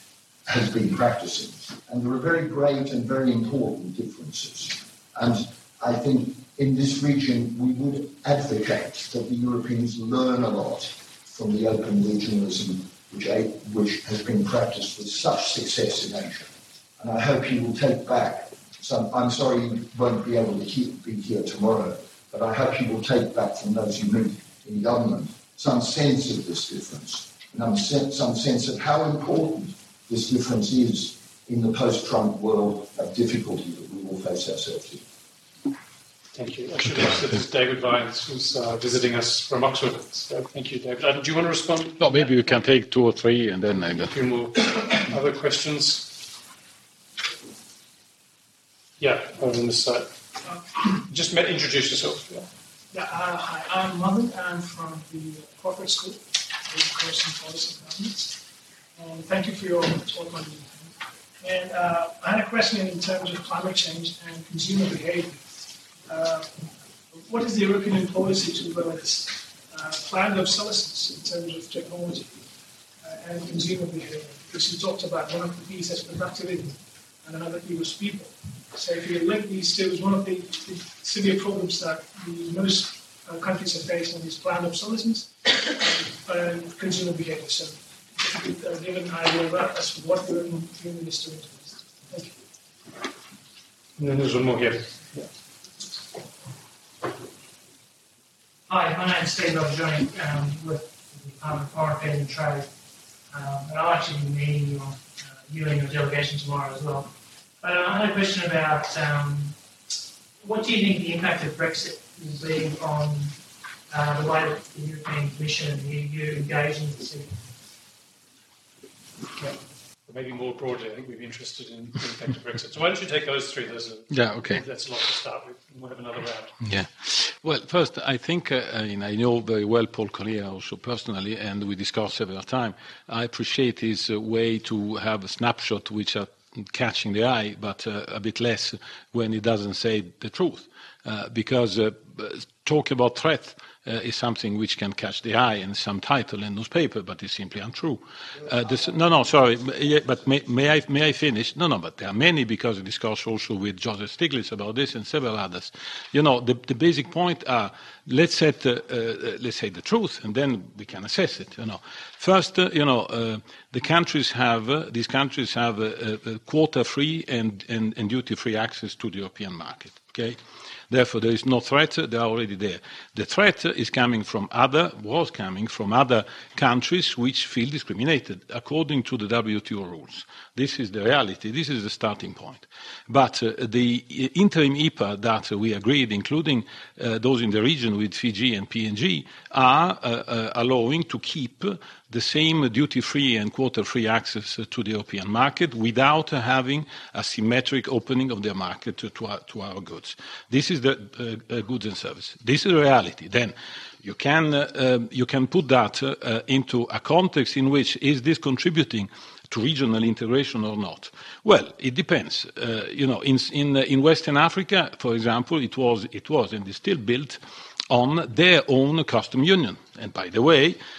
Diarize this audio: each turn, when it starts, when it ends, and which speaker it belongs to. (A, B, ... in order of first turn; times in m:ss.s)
0:00.5-0:35.0 A
0:36.3-0:42.3 B
0:42.0-0:44.1 C
0:44.1-0:46.2 B
0:49.0-0:50.1 B
0:50.9-0:52.5 B
0:52.9-0:58.4 D
0:59.0-1:05.4 D
1:06.1-1:12.4 D
1:13.0-1:32.4 D
1:34.0-1:35.3 B
1:38.7-1:42.7 E
1:43.3-1:49.6 E
1:50.4-1:53.4 E
1:53.9-1:57.4 E
2:00.1-2:06.6 B
2:04.1-2:04.6 C
2:06.6-2:50.4 C
2:50.9-3:40.8 C